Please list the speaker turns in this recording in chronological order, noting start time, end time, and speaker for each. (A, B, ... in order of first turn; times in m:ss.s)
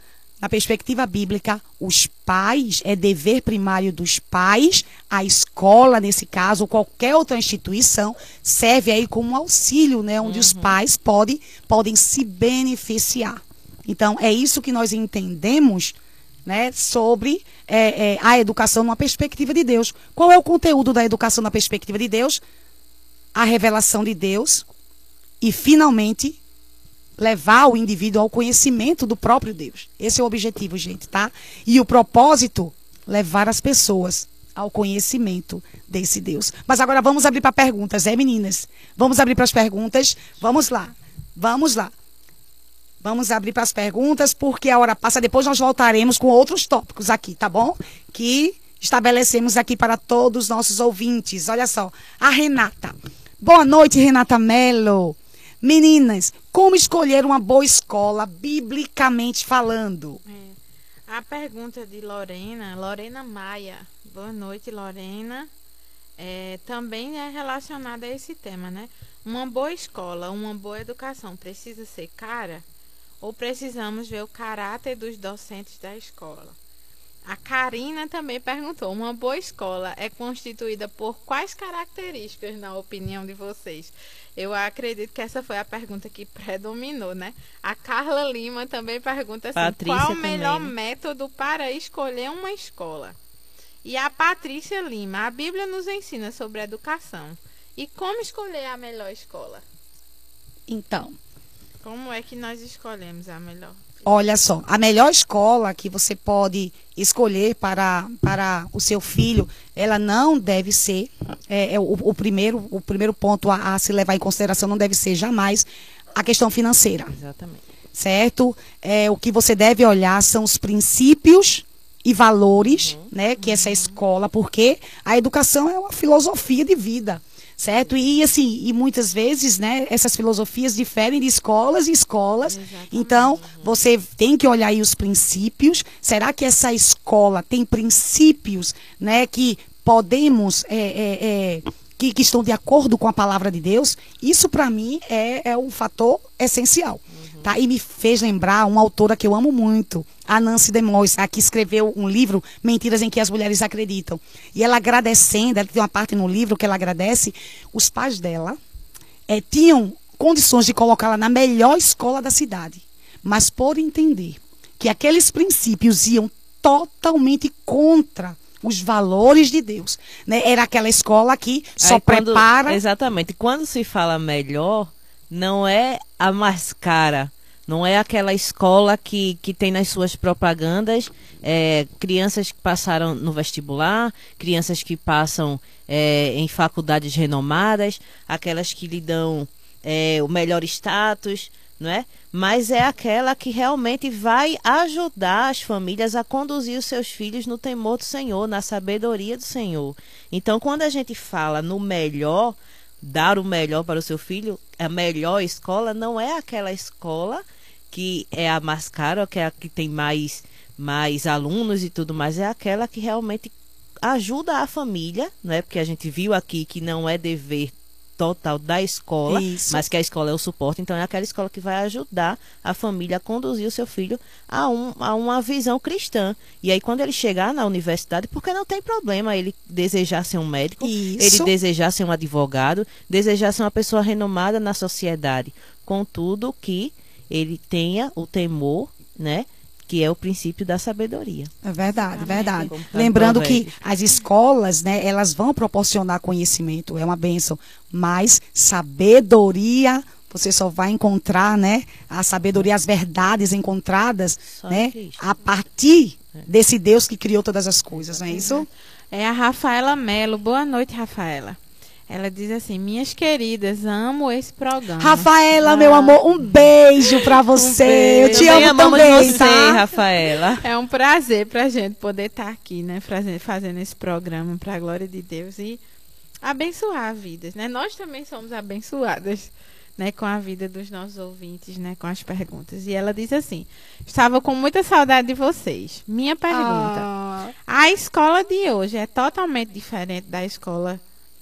0:00.4-0:22.4 A
0:10.2-0:10.8 B
0:23.3-0:24.6 A
0:25.4-0:26.4 A
0:27.2-0:41.9 A
0:43.0-1:00.2 A
1:00.2-1:05.5 C
1:06.2-1:12.6 C
1:13.2-1:16.5 C
1:17.3-1:33.2 C
1:29.6-1:30.7 B
1:33.8-1:39.6 C
1:40.7-1:41.2 A
1:41.8-1:44.0 C
1:44.0-1:57.1 A
1:57.1-1:57.6 B
1:57.9-2:38.6 A
2:02.6-2:03.1 B
2:03.4-2:04.0 C
2:12.4-2:13.4 C
2:13.4-2:13.7 B
2:27.2-2:27.5 B
2:39.3-2:52.8 A
2:51.8-4:01.5 B
3:39.3-3:39.8 A
3:50.8-3:51.5 A
4:01.6-4:18.7 A
4:01.9-4:02.8 C
4:02.3-4:03.8 B
4:14.5-4:15.4 B
4:18.3-4:26.2 C
4:25.0-4:29.8 A
4:27.2-4:35.8 C
4:27.6-4:30.6 B
4:36.4-4:47.1 C
4:46.5-4:47.5 A
4:47.7-4:51.0 C